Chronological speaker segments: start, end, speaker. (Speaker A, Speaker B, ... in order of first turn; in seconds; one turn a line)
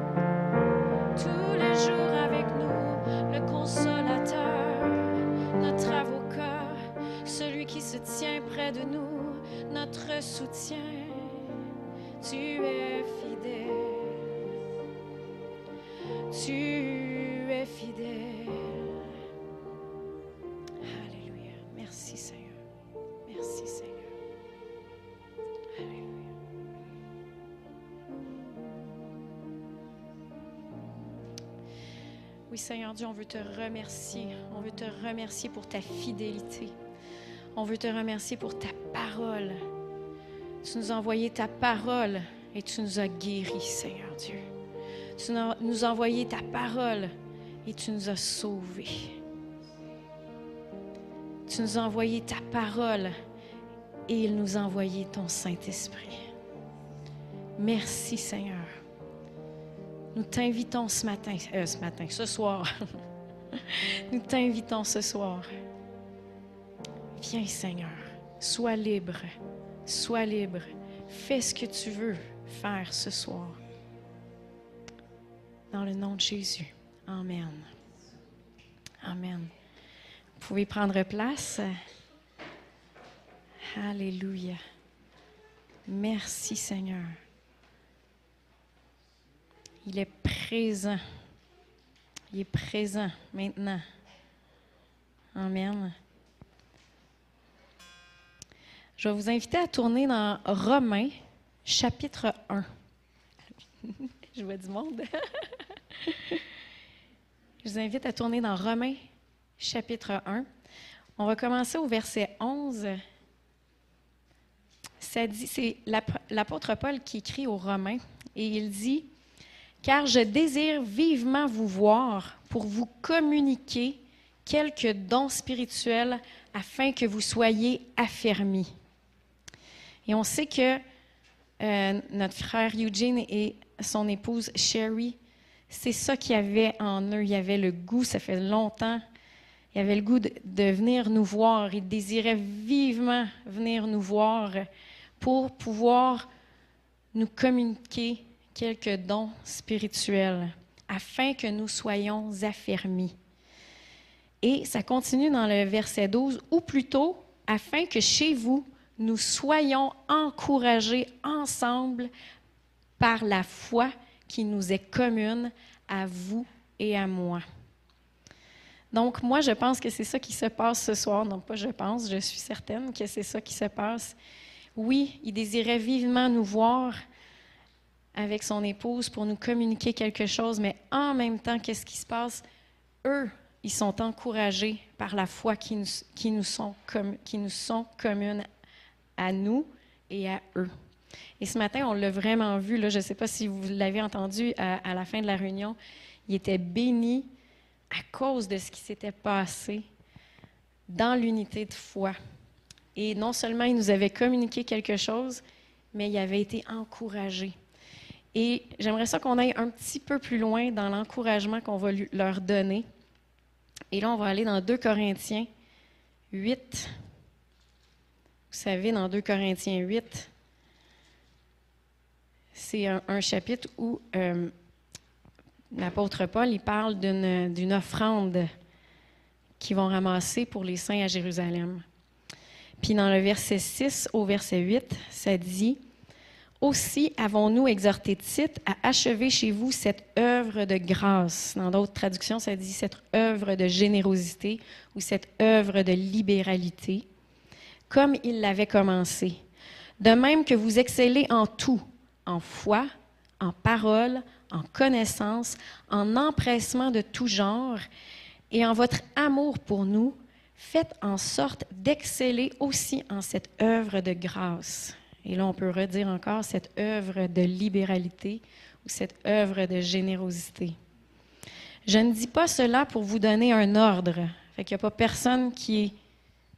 Speaker A: 1.1-11.5
Speaker A: 12.2-14.4
Speaker A: 16.3-19.0
Speaker A: 20.8-22.6
Speaker A: 23.2-24.1
Speaker A: 25.8-26.2
Speaker A: 32.5-36.7
Speaker A: 37.5-39.6
Speaker A: 40.6-44.5
Speaker A: 45.1-47.1
Speaker A: 47.6-49.2
Speaker A: 51.5-53.1
Speaker A: 54.1-56.2
Speaker A: 57.6-58.7
Speaker A: 60.1-62.7
Speaker A: 63.5-65.5
Speaker A: 67.2-69.3
Speaker A: 69.8-73.6
Speaker A: 75.7-77.7
Speaker A: 79.0-79.5
Speaker A: 80.4-81.7
Speaker A: 83.7-84.6
Speaker A: 85.9-87.2
Speaker A: 89.8-91.0
Speaker A: 92.3-93.8
Speaker A: 95.3-95.9
Speaker A: 99.0-102.7
Speaker A: 103.8-106.4
Speaker A: 107.6-109.0
Speaker A: 109.6-110.5
Speaker A: 111.2-113.0
Speaker A: 115.0-119.1
Speaker A: 119.8-128.7
Speaker A: 130.1-130.8
Speaker A: 131.6-135.2
Speaker A: 135.7-139.0
Speaker A: 139.7-144.7
Speaker A: 145.2-146.3
Speaker A: 147.1-153.1
Speaker A: 154.4-162.1
Speaker A: 163.0-167.4
Speaker A: 168.9-174.2
Speaker A: 174.8-177.0
Speaker A: 178.1-182.4
Speaker A: 183.0-188.4
Speaker A: 189.2-190.7
Speaker A: 191.4-197.3
Speaker A: 197.9-199.8
Speaker A: 200.9-202.2
Speaker A: 202.9-205.4
Speaker A: 205.9-207.5
Speaker A: 208.3-212.8
Speaker A: 213.9-215.5
Speaker A: 216.3-216.9
Speaker A: 218.5-220.3
Speaker A: 222.5-224.5
Speaker A: 225.7-228.5
Speaker A: 229.6-231.8
Speaker A: 232.8-235.8
Speaker A: 236.6-247.1
Speaker A: 247.9-249.4
Speaker A: 250.0-252.9
Speaker A: 253.4-257.8
Speaker A: 258.5-270.8
Speaker A: 271.9-275.9